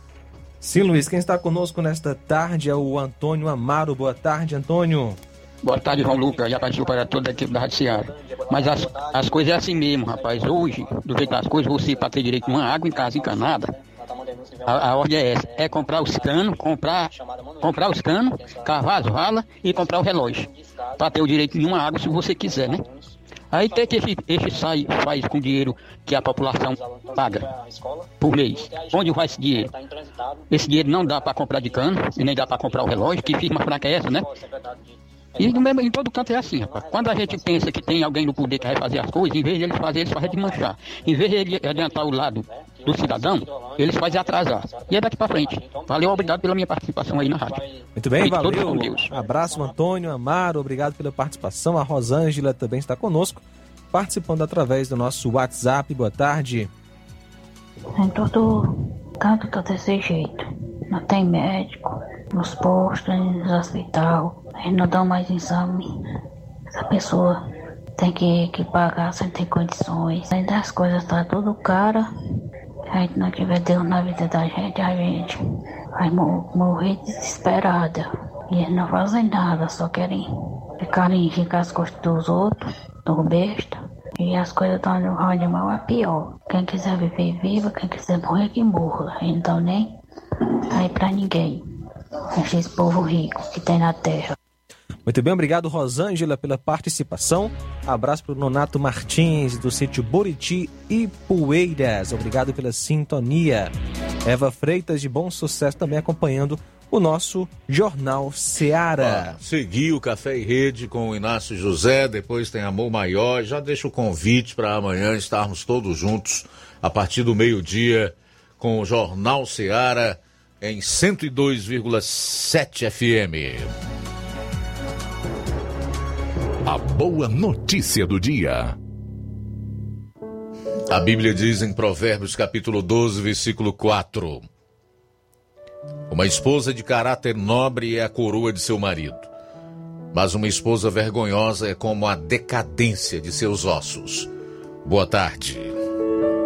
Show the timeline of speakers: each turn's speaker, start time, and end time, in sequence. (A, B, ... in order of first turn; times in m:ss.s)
0:00.6-0:05.2 A
0:05.6-0:13.7 B
0:14.6-0:22.8 B
0:23.5-0:27.5 B
0:28.2-0:29.7 B
0:30.5-0:34.3 B
0:35.4-0:47.6 B
0:48.0-0:56.7 A
0:48.2-0:49.1 B
0:58.0-1:05.9 C
1:06.7-1:07.4 C
1:08.0-1:12.1 C
1:12.9-1:15.4 C
1:16.0-1:20.3 C
1:20.8-1:29.9 C
1:30.7-1:31.6 C
1:32.3-1:34.4 C
1:35.1-1:43.7 A
1:44.2-1:49.4 A
1:49.0-2:03.7 D
2:06.6-2:08.8 E
2:10.9-2:14.5 D
2:16.1-2:19.3 D
2:20.1-2:24.3 D
2:24.8-2:25.8 D